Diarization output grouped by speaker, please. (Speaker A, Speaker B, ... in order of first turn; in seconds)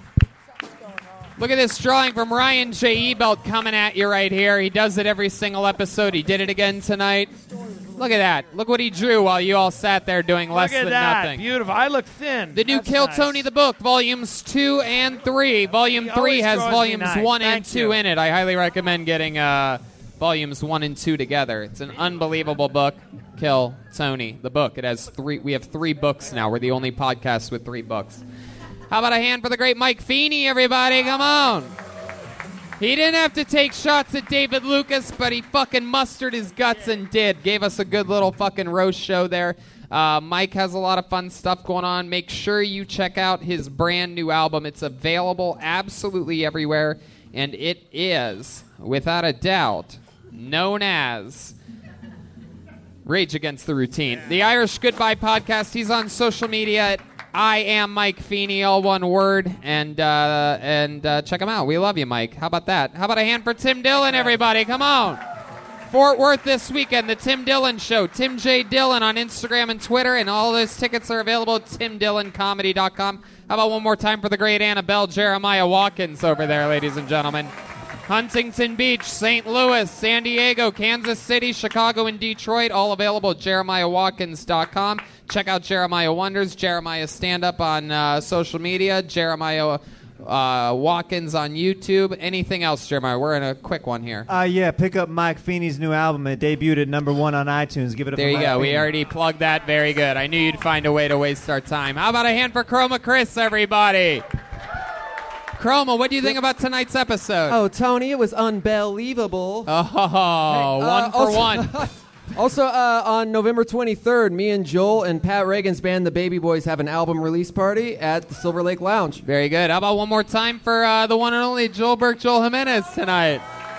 Speaker A: 1.4-7.4, 8.0-11.4, 12.5-28.2, 28.9-31.7, 32.8-51.6, 53.1-65.2, 65.9-77.5, 78.1-94.3, 98.1-104.2, 105.6-107.6, 109.7-111.9, 119.2-123.4
Speaker B: 10.5-13.5, 16.0-18.0
Speaker C: 94.3-98.9
Speaker D: 107.5-109.7, 110.5-119.2